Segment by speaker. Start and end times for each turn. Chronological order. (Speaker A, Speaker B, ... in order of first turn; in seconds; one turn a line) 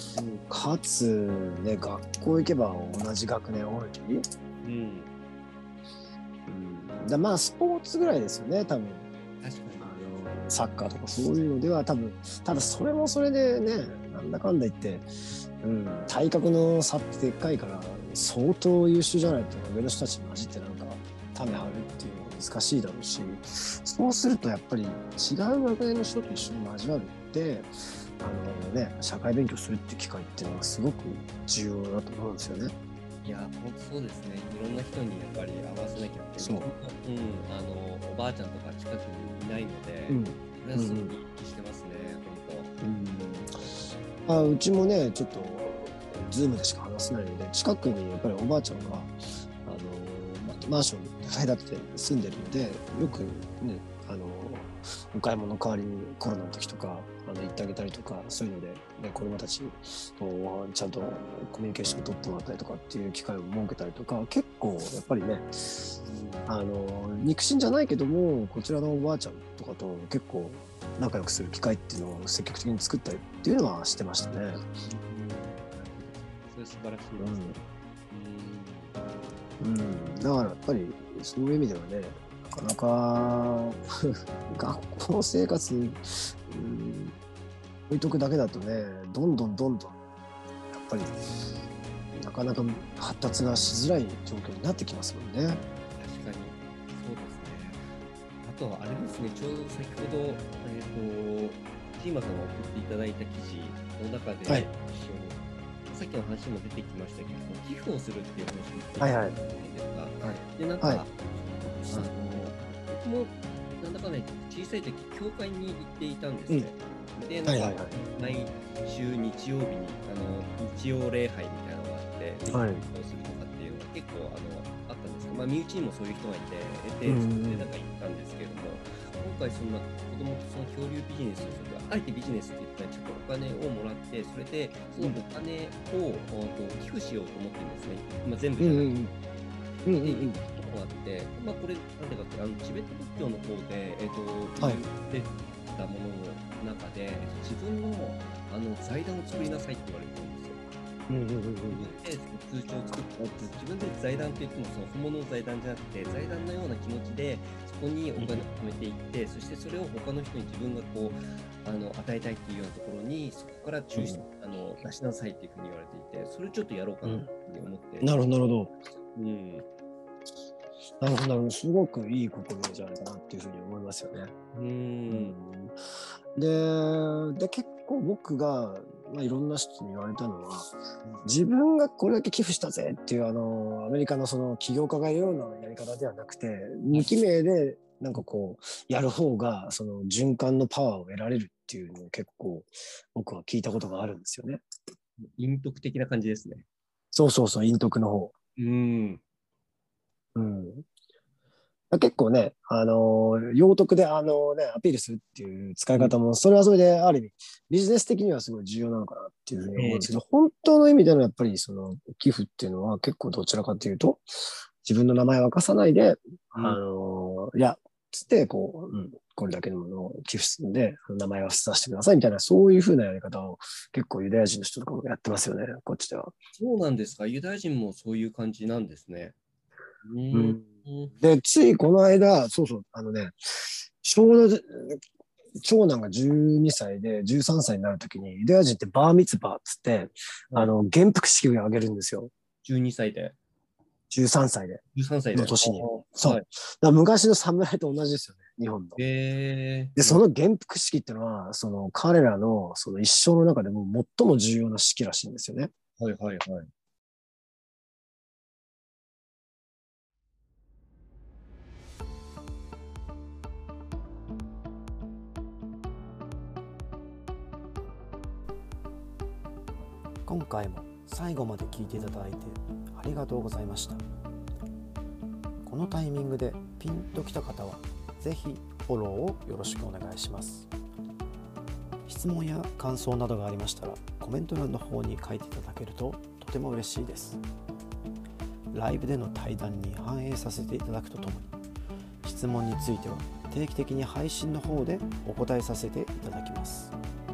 Speaker A: 0.1-0.5
Speaker B: 0.5-4.2
Speaker A: 4.6-5.1
Speaker B: 6.5-9.1
Speaker A: 9.4-9.9
Speaker B: 9.8-15.1
Speaker B: 15.6-27.7
Speaker B: 28.2-32.7
Speaker A: 33.2-42.7
Speaker B: 36.4-36.7
Speaker B: 40.1-41.1
Speaker B: 42.8-43.6
Speaker B: 44.3-65.9
Speaker A: 66.0-66.5
Speaker B: 66.5-74.6
Speaker A: 74.8-77.6
Speaker B: 77.2-77.6
Speaker A: 78.1-79.0
Speaker B: 79.6-87.2
Speaker B: 87.9-90.0
Speaker B: 90.7-91.2
Speaker B: 92.2-95.6
Speaker A: 96.0-97.8
Speaker A: 98.4-138.9
Speaker B: 109.0-109.3
Speaker B: 110.2-111.0
Speaker B: 117.5-118.0
Speaker B: 122.5-122.8
Speaker B: 127.0-127.7
Speaker B: 135.0-135.2
Speaker B: 138.6-139.1
Speaker B: 139.8-140.4
Speaker A: 139.9-150.6
Speaker B: 151.1-151.9
Speaker A: 151.7-168.1
Speaker B: 158.2-158.4
Speaker B: 163.9-164.2
Speaker B: 167.0-167.3
Speaker B: 168.0-168.7
Speaker A: 169.1-169.6
Speaker B: 171.0-174.3
Speaker A: 174.5-175.3
Speaker B: 175.1-175.7
Speaker B: 176.4-194.6
Speaker A: 195.2-196.6
Speaker B: 197.1-198.3
Speaker A: 198.6-199.2
Speaker B: 200.3-200.8
Speaker B: 201.9-214.2
Speaker A: 209.8-210.1
Speaker B: 214.8-226.3
Speaker A: 216.6-216.8
Speaker A: 226.6-229.3
Speaker A: 230.0-231.1
Speaker B: 230.3-230.6
Speaker B: 231.2-233.3
Speaker B: 234.0-235.0
Speaker B: 235.6-242.3
Speaker A: 242.6-243.3
Speaker B: 244.1-244.8
Speaker A: 244.9-246.4
Speaker B: 245.3-249.0
Speaker A: 248.9-250.2
Speaker B: 250.0-255.7
Speaker A: 256.0-256.7
Speaker C: 270.3-274.0
Speaker B: 273.4-273.9
Speaker C: 275.6-280.6
Speaker B: 279.9-280.4
Speaker C: 282.1-287.4
Speaker B: 283.1-284.2
Speaker B: 285.0-287.2
Speaker C: 288.7-291.5
Speaker B: 288.9-291.5
Speaker C: 292.2-296.9
Speaker B: 292.3-296.7